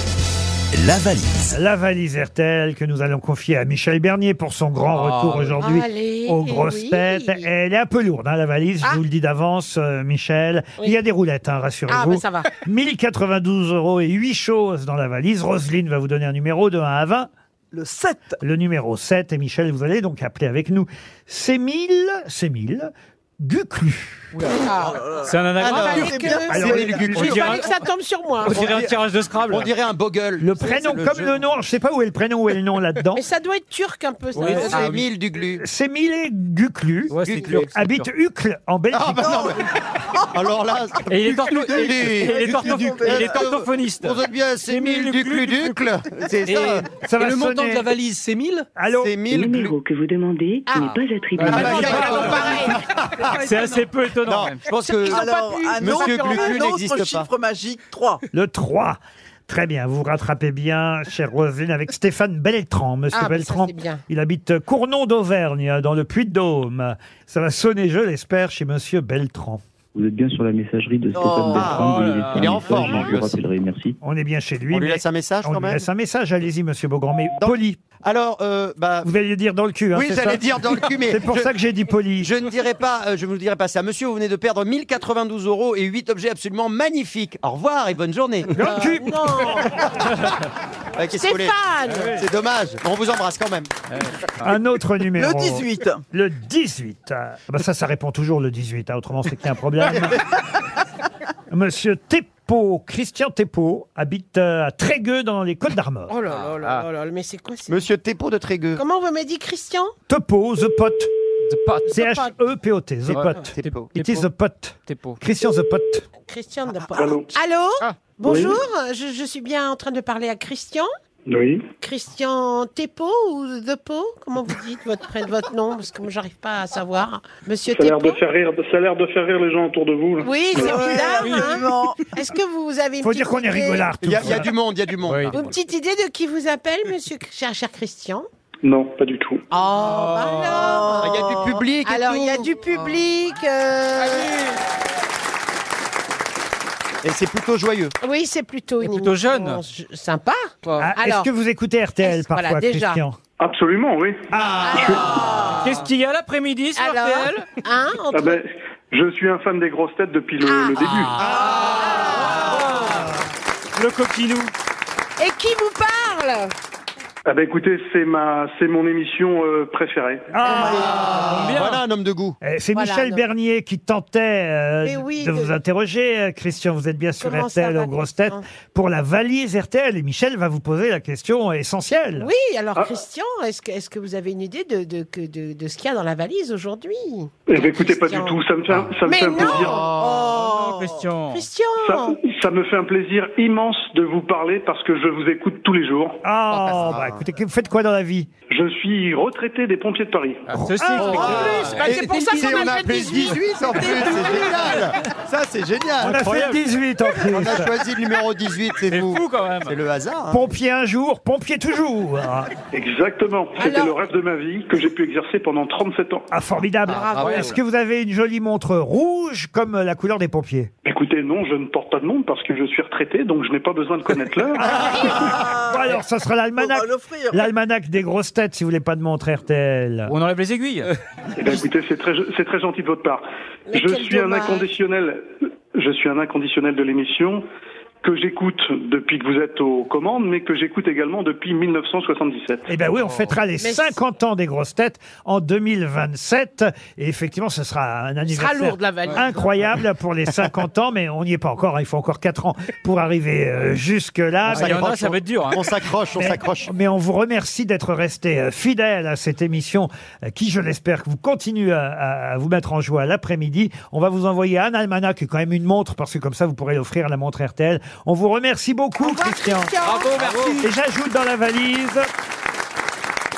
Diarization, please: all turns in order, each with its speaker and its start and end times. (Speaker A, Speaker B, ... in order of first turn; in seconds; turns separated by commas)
Speaker A: 0.7-1.4, Speaker B: 1.5-17.3, Speaker C: 4.9-5.6, Speaker D: 5.6-7.5, Speaker D: 11.9-12.5, Speaker E: 17.7-18.4, Speaker B: 18.4-24.3, Speaker C: 24.4-24.6, Speaker D: 24.6-25.1, Speaker E: 24.8-25.4, Speaker C: 25.2-26.4, Speaker A: 25.6-27.6, Speaker D: 25.6-28.6, Speaker B: 26.4-27.4, Speaker C: 27.1-27.7, Speaker C: 28.4-29.7, Speaker A: 28.5-31.3, Speaker B: 30.4-33.2, Speaker D: 33.1-34.9, Speaker C: 34.3-35.0, Speaker B: 34.4-34.8, Speaker A: 34.7-35.6, Speaker B: 35.6-39.5, Speaker C: 37.1-38.1, Speaker A: 37.1-37.7, Speaker A: 38.9-39.6, Speaker E: 39.2-39.5, Speaker A: 40.3-46.9, Speaker C: 41.1-45.8, Speaker E: 41.7-43.5, Speaker C: 46.5-48.7, Speaker B: 47.0-47.9, Speaker B: 48.8-49.2, Speaker A: 48.9-49.8, Speaker F: 49.3-51.8, Speaker D: 50.7-52.8, Speaker C: 50.8-51.7, Speaker A: 51.4-55.3, Speaker B: 51.9-52.3, Speaker C: 53.3-54.6, Speaker D: 54.7-56.7, Speaker E: 55.0-58.2, Speaker A: 55.8-57.3, Speaker B: 58.3-69.6, Speaker D: 63.1-64.0, Speaker G: 70.0-74.0, Speaker E: 71.1-71.9, Speaker A: 71.5-73.4, Speaker C: 71.7-72.6, Speaker D: 72.6-73.1, Speaker B: 74.0-77.8, Speaker A: 74.7-75.8, Speaker A: 77.4-79.1, Speaker B: 79.0-80.5, Speaker A: 79.9-81.5, Speaker B: 81.0-82.4, Speaker A: 82.2-88.5, Speaker B: 88.5-89.9, Speaker D: 88.6-89.8, Speaker A: 91.0-93.7, Speaker D: 91.1-92.2, Speaker C: 92.0-92.2, Speaker C: 94.0-94.3, Speaker B: 94.4-100.2, Speaker E: 95.1-96.0, Speaker B: 101.5-106.1, Speaker D: 106.1-107.8, Speaker C: 106.5-106.8, Speaker A: 107.7-108.8, Speaker D: 108.8-109.9, Speaker B: 110.1-111.1, Speaker C: 111.5-111.9, Speaker D: 111.9-112.3, Speaker B: 111.9-116.1, Speaker C: 113.1-114.2, Speaker A: 113.5-113.9, Speaker C: 114.9-115.2, Speaker D: 116.3-120.9, Speaker H: 117.0-117.3, Speaker H: 118.2-118.6, Speaker H: 121.3-121.6, Speaker D: 121.8-128.2, Speaker H: 127.7-130.9, Speaker D: 130.2-133.9, Speaker E: 130.5-132.0, Speaker B: 133.0-134.5, Speaker A: 134.0-135.3, Speaker C: 135.0-135.3, Speaker D: 135.3-138.3, Speaker H: 138.6-139.4, Speaker D: 139.5-144.3, Speaker C: 139.9-140.5, Speaker E: 140.6-141.6, Speaker A: 141.0-142.5, Speaker A: 147.0-147.9, Speaker D: 148.0-151.3, Speaker C: 148.8-149.6, Speaker B: 150.8-153.2, Speaker D: 152.0-153.0, Speaker H: 153.4-154.2, Speaker B: 154.3-154.9, Speaker D: 154.6-155.8, Speaker H: 154.8-155.1, Speaker C: 155.6-157.6, Speaker D: 156.8-158.4, Speaker H: 158.1-161.2, Speaker D: 160.4-162.9, Speaker B: 161.2-161.8, Speaker E: 161.5-161.8, Speaker C: 162.1-163.1, Speaker C: 163.8-164.5, Speaker D: 165.2-166.5, Speaker H: 167.2-170.3, Speaker B: 170.3-171.3, Speaker D: 170.4-171.1, Speaker A: 170.6-172.4, Speaker C: 171.2-171.8, Speaker B: 172.4-182.3, Speaker D: 172.7-173.3, Speaker D: 174.8-175.5, Speaker D: 177.2-178.5, Speaker D: 182.2-188.4, Speaker H: 187.5-189.8, Speaker D: 189.0-189.9, Speaker A: 189.5-190.2, Speaker E: 189.6-191.1, Speaker C: 190.2-191.5, Speaker D: 191.3-192.2, Speaker H: 191.8-196.2, Speaker B: 196.2-198.3, Speaker A: 196.5-197.2, Speaker H: 198.5-200.5, Speaker C: 200.5-202.0, Speaker B: 200.6-201.5, Speaker D: 200.9-204.9, Speaker A: 201.0-206.2, Speaker B: 206.0-207.8, Speaker C: 206.0-206.6, Speaker A: 207.2-210.4, Speaker C: 208.9-209.8, Speaker B: 210.3-212.5, Speaker H: 212.7-216.3, Speaker D: 213.6-214.0, Speaker B: 216.3-220.7, Speaker D: 216.9-217.5, Speaker C: 217.0-217.5, Speaker H: 220.8-225.4, Speaker B: 224.5-230.2, Speaker E: 225.2-226.0, Speaker E: 226.6-227.5, Speaker C: 230.1-230.9, Speaker H: 231.4-235.2, Speaker D: 233.7-234.8, Speaker H: 235.7-237.4, Speaker H: 238.0-242.7, Speaker B: 242.7-255.2, Speaker D: 243.6-244.0, Speaker D: 248.2-249.4, Speaker C: 254.5-255.7, Speaker A: 254.5-256.7, Speaker B: 256.1-269.7, Speaker D: 269.0-270.6, Speaker C: 269.8-270.7, Speaker B: 270.5-272.1